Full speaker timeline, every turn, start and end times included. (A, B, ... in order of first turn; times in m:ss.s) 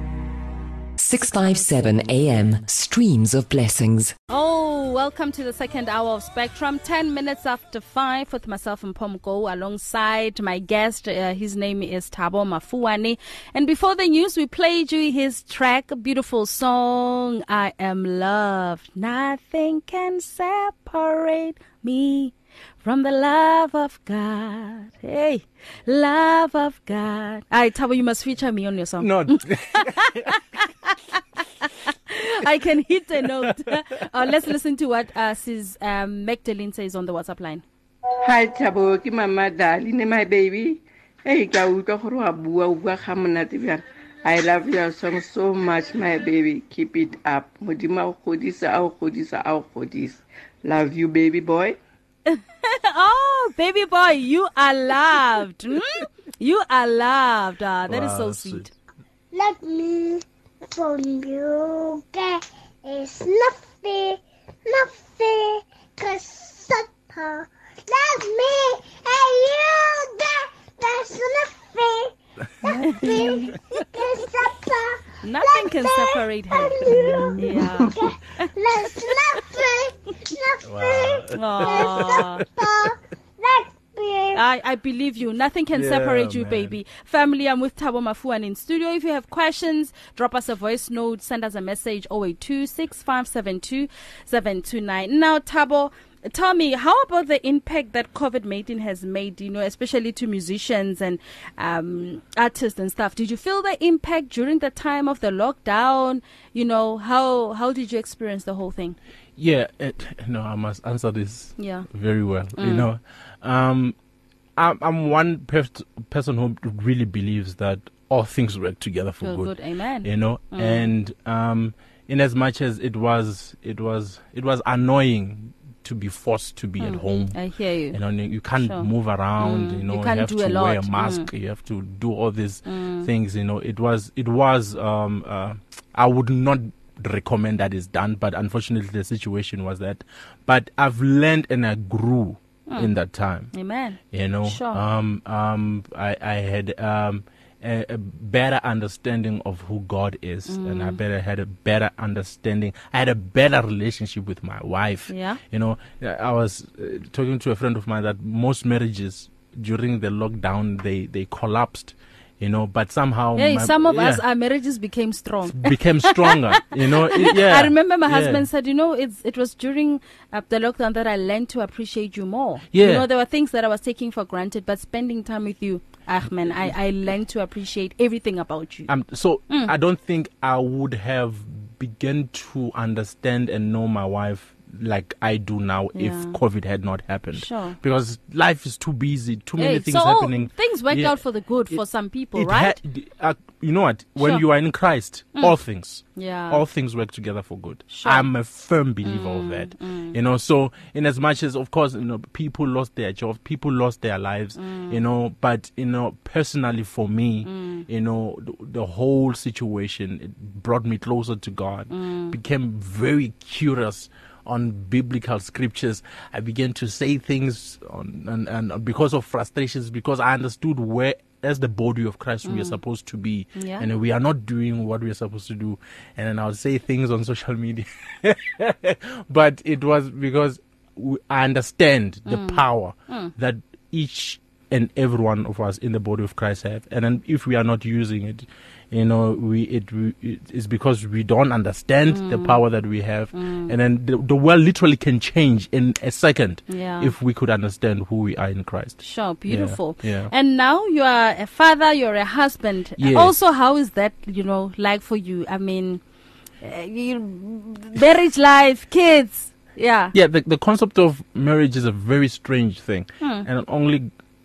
0:01.0-0:04.1 A
0:04.3-0:37.6 B
0:29.0-0:30.4 C
0:33.2-0:33.7 C
0:38.2-0:51.8 D
0:52.3-0:58.7 B
0:57.9-0:58.7 C
0:59.3-1:00.2 E
1:00.7-1:12.1 E
1:12.7-1:13.6 D
1:12.8-1:13.2 B
1:13.0-1:24.4 E
1:15.2-1:19.5 B
1:20.6-1:22.7 C
1:21.3-1:22.5 B
1:24.3-1:49.0 B
1:25.7-1:26.8 C
1:49.4-1:54.0 C
1:51.6-1:51.9 B
1:52.6-1:52.9 B
1:54.6-1:59.5 C
1:59.2-2:00.9 B
2:00.0-2:07.4 C
2:06.8-2:08.0 B
2:07.9-2:23.5 C
2:08.6-2:11.3 B
2:12.7-2:13.1 B
2:23.5-2:24.8 B
2:24.1-2:44.2 C
2:30.5-2:31.0 B
2:35.1-2:35.4 B
2:43.4-2:58.9 B
2:45.4-2:48.5 C
2:52.7-2:53.1 C
2:58.9-3:11.2 C
3:05.9-3:06.4 B
3:07.3-3:07.8 B
3:09.6-3:12.8 B
3:12.4-4:10.3 C
3:14.2-3:14.4 B
3:16.2-3:16.6 B
3:17.9-3:18.3 B
3:19.0-3:20.2 B
3:24.6-3:25.0 B
3:27.4-3:27.9 B
3:31.9-3:32.4 B
3:42.4-3:42.8 B
3:43.6-3:43.9 B
3:52.3-3:53.3 B
4:02.1-4:02.6 B
4:03.3-4:03.7 B
4:06.7-4:07.1 B
4:09.0-4:16.0 B
4:13.0-4:13.3 C
4:16.6-4:20.1 B
4:20.1-4:24.1 C
4:23.2-4:23.5 B